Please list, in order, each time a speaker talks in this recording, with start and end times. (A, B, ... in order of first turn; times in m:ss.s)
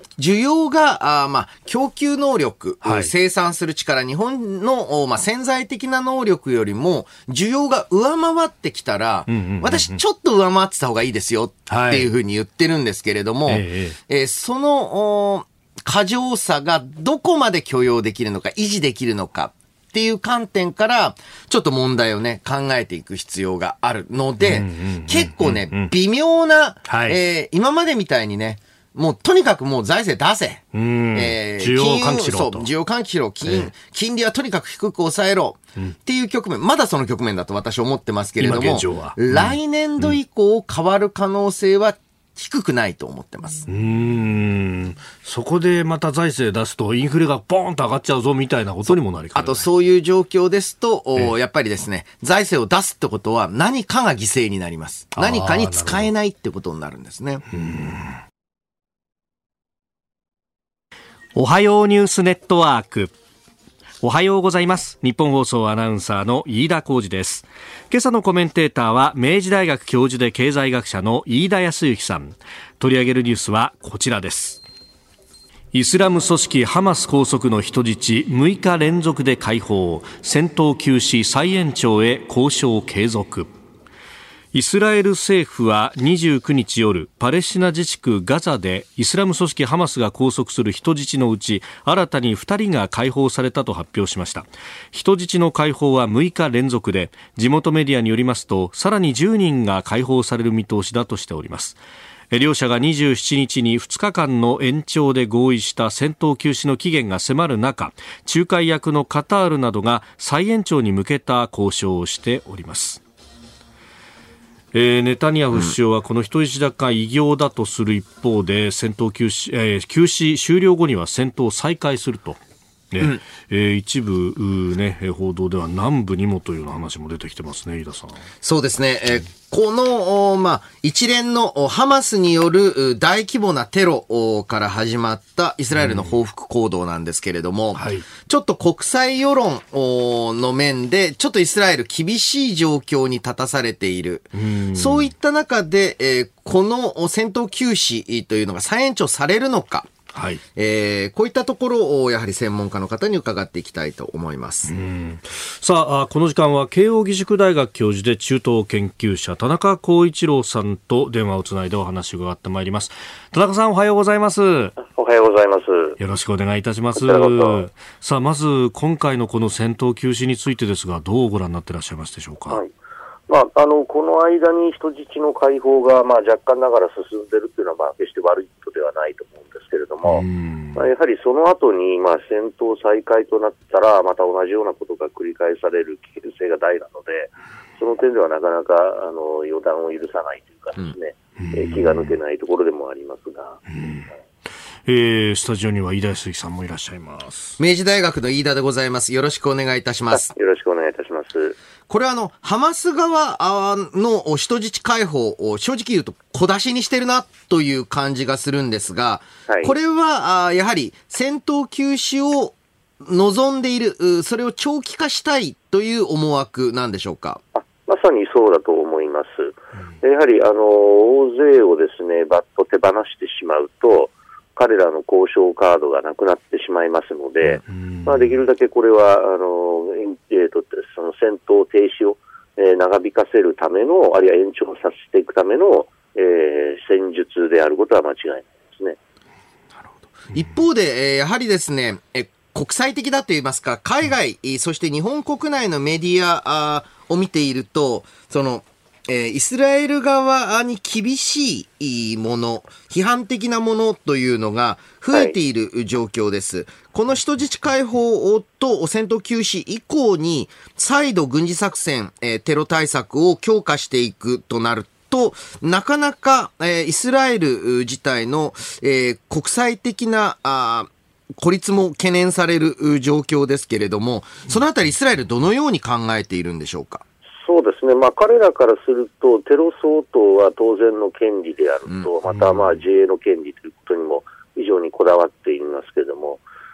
0:00.2-0:43.6 A
0:02.8-0:03.1 B
0:09.3-0:10.0 B
0:11.7-0:12.1 B
0:13.5-0:14.0 B
0:24.4-0:25.9 B
0:26.9-0:27.2 B
0:30.7-0:32.7 B
0:38.4-0:40.2 B
0:43.7-0:49.6 B
0:48.8-0:57.4 A
0:55.2-0:56.1 B
0:57.5-0:58.2 B
1:01.3-1:03.1 B
1:04.0-1:14.6 B
1:15.7-1:23.5 B
1:24.5-1:41.8 B
1:42.3-1:53.0 B
1:54.7-2:02.4 B
2:02.9-2:08.2 B
2:08.4-2:29.9 A
2:15.7-2:16.1 B
2:17.8-2:18.1 B
2:24.3-2:25.1 B
2:30.1-2:30.4 B
2:30.6-2:34.8 A
2:34.7-2:44.7 B
2:44.8-2:46.0 C
2:46.0-2:52.6 B
2:46.9-2:47.7 C
2:53.3-3:00.2 C
3:00.1-3:00.8 B
3:00.8-3:13.6 C
3:11.4-3:12.2 B
3:13.7-3:14.1 B
3:14.8-3:17.6 B
3:17.6-3:20.3 A
3:20.1-3:21.6 C
3:21.9-3:37.4 A
3:29.5-3:29.7 C
3:37.5-3:59.0 C
3:47.4-3:48.4 B
3:59.8-4:00.5 B
4:00.3-4:37.0 A
4:37.4-4:46.4 C
4:42.2-4:42.8 B